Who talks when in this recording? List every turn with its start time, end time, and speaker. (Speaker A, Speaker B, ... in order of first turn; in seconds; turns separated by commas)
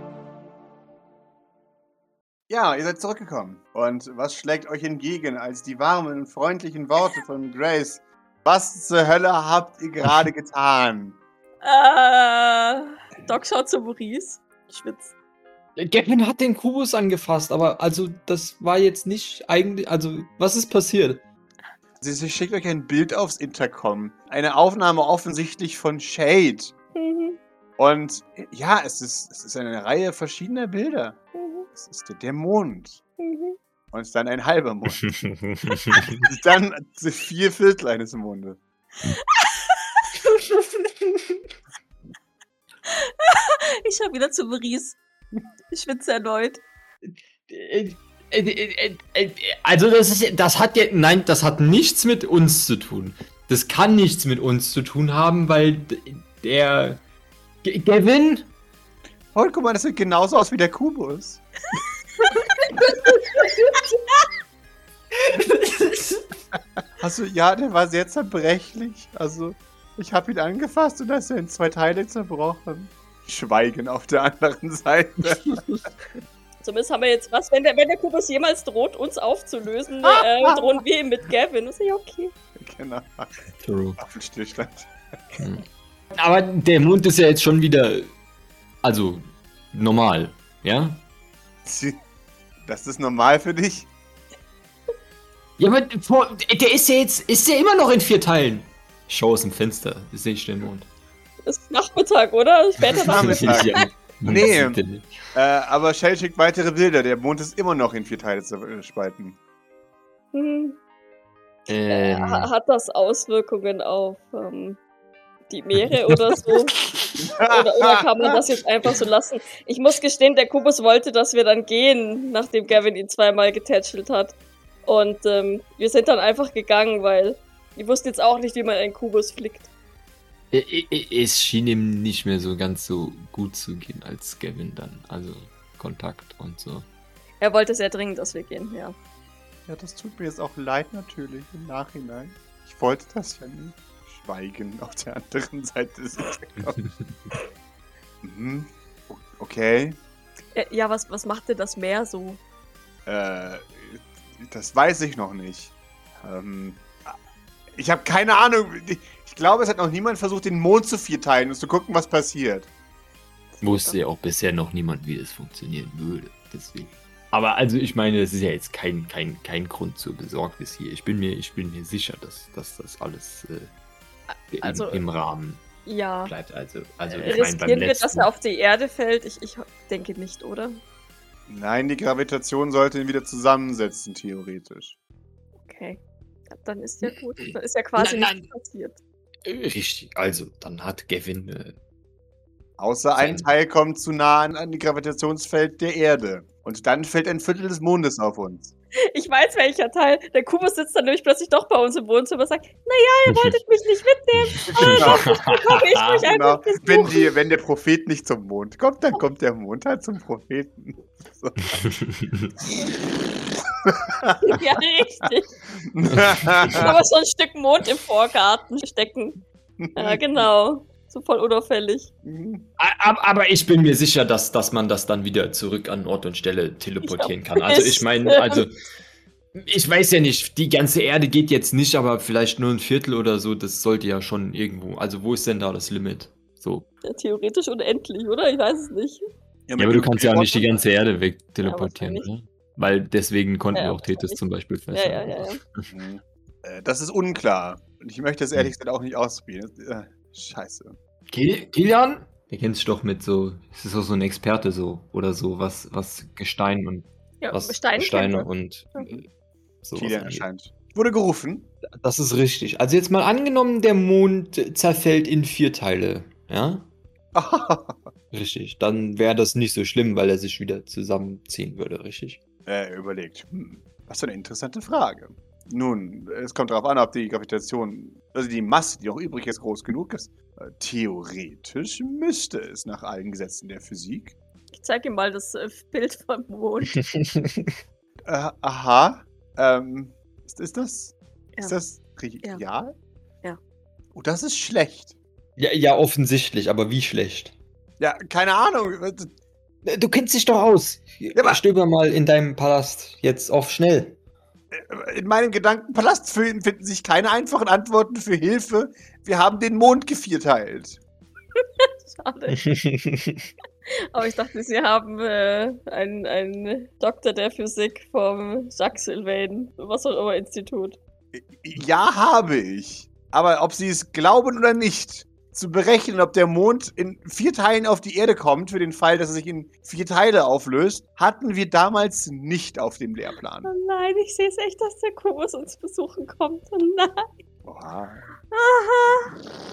Speaker A: 2.5-11.2, Speaker B: 11.6-15.1, Speaker C: 15.8-21.2, Speaker A: 22.0-26.7, Speaker B: 26.9-27.4, Speaker A: 27.8-31.2, Speaker B: 31.4-31.7, Speaker A: 31.7-33.0, Speaker B: 33.2-33.6, Speaker A: 33.9-35.1, Speaker C: 35.2-36.2, Speaker A: 36.1-38.6, Speaker B: 39.0-40.1, Speaker B: 42.9-45.0, Speaker B: 45.7-46.6, Speaker C: 47.5-57.0, Speaker C: 57.6-58.5, Speaker A: 59.3-61.4, Speaker C: 65.2-66.2, Speaker A: 67.0-75.6, Speaker C: 75.3-75.6, Speaker B: 76.6-82.3, Speaker A: 80.0-80.8, Speaker A: 82.6-83.3, Speaker C: 83.6-84.0, Speaker A: 84.0-84.9, Speaker C: 85.4-88.1, Speaker C: 88.8-91.0, Speaker A: 91.7-92.0, Speaker A: 92.6-93.9, Speaker C: 95.6-100.9, Speaker B: 101.4-103.8, Speaker C: 102.8-105.2, Speaker A: 103.0-104.8, Speaker A: 105.3-109.4, Speaker B: 110.3-110.8, Speaker C: 111.7-112.5, Speaker B: 111.9-114.8, Speaker B: 115.5-116.8, Speaker C: 115.8-116.8, Speaker A: 117.2-118.3, Speaker B: 117.4-129.7, Speaker C: 130.5-136.9, Speaker B: 137.4-138.9, Speaker A: 139.7-146.8, Speaker C: 146.6-147.1, Speaker A: 148.2-150.0, Speaker B: 150.6-152.4, Speaker A: 153.1-157.2, Speaker A: 157.7-162.7, Speaker B: 163.5-164.0, Speaker C: 163.6-173.7, Speaker B: 174.3-175.0, Speaker C: 174.5-175.7, Speaker B: 175.8-176.3, Speaker C: 176.2-178.3, Speaker B: 177.1-180.8, Speaker A: 181.5-185.0, Speaker B: 185.6-189.0, Speaker C: 187.0-188.5, Speaker C: 189.4-191.8, Speaker A: 192.8-198.7, Speaker C: 193.2-193.5, Speaker B: 199.0-207.3, Speaker C: 203.3-203.5, Speaker A: 204.7-205.4, Speaker C: 204.8-206.2, Speaker A: 206.0-211.8, Speaker C: 211.8-212.5, Speaker A: 213.8-214.6, Speaker B: 214.4-215.5, Speaker A: 215.8-216.9, Speaker C: 216.1-216.8, Speaker B: 216.7-219.4, Speaker A: 219.8-220.2, Speaker B: 219.9-222.1, Speaker A: 222.2-222.7, Speaker C: 222.8-228.7, Speaker B: 227.0-228.7, Speaker C: 229.6-236.9, Speaker B: 237.0-239.2, Speaker A: 239.7-240.7, Speaker C: 239.8-245.9, Speaker B: 241.6-242.3, Speaker B: 243.8-244.4, Speaker B: 244.9-245.6, Speaker A: 245.9-251.0, Speaker C: 251.3-259.3, Speaker B: 257.4-259.1, Speaker C: 259.8-260.5, Speaker A: 259.9-261.7, Speaker C: 261.8-266.9, Speaker A: 267.4-268.1, Speaker C: 268.3-272.4, Speaker A: 272.7-284.4, Speaker B: 284.7-287.0, Speaker C: 287.0-287.8, Speaker A: 288.2-292.9, Speaker A: 294.1-295.2, Speaker C: 295.6-297.6, Speaker A: 298.0-299.3, Speaker C: 299.9-304.2, Speaker A: 301.3-301.6, Speaker A: 304.7-311.0, Speaker B: 311.8-312.6, Speaker C: 312.6-313.5, Speaker B: 314.1-321.0, Speaker A: 321.3-333.7, Speaker B: 333.6-337.3, Speaker A: 337.6-338.3, Speaker B: 338.5-339.4